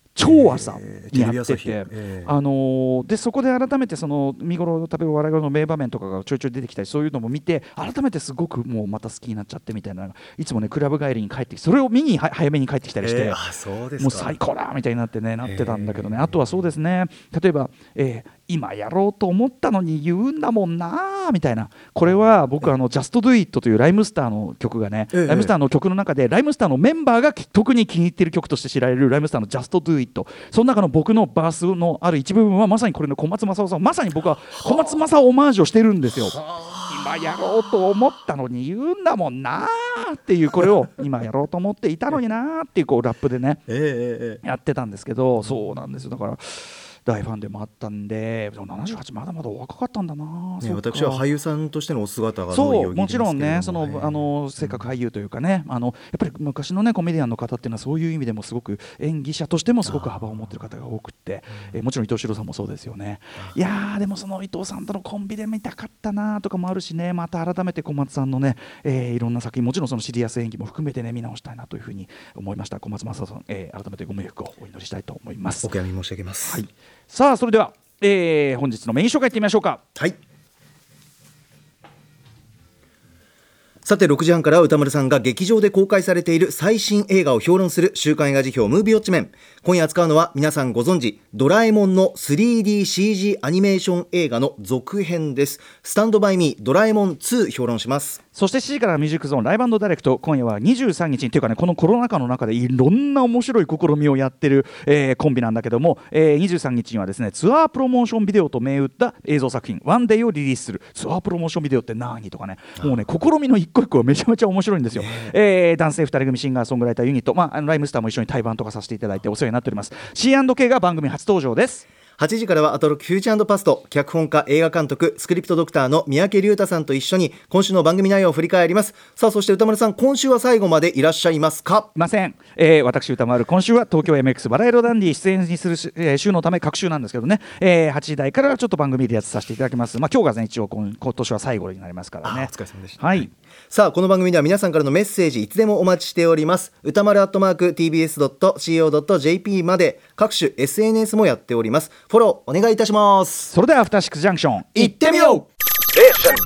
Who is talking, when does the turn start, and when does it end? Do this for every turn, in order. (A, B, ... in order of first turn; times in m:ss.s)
0:00.1-0:13.4 A
0:00.2-0:02.3 B
0:13.0-0:14.4 B
0:14.0-0:43.6 A
0:15.4-0:16.5 B
0:25.1-0:25.5 B
0:36.5-0:36.7 B
0:43.7-0:44.4 B
0:44.4-0:51.2 A
0:45.4-0:45.8 B
0:50.6-0:54.9 B
0:52.5-1:15.8 A
0:59.8-1:00.3 B
1:15.6-1:16.6 B
1:16.4-1:19.8 A
1:23.8-1:38.2 B
1:38.3-2:01.9 A
1:54.9-1:55.4 B
2:02.2-2:11.9 B
2:11.9-2:23.3 A
2:22.2-2:33.5 B
2:33.5-2:35.0 A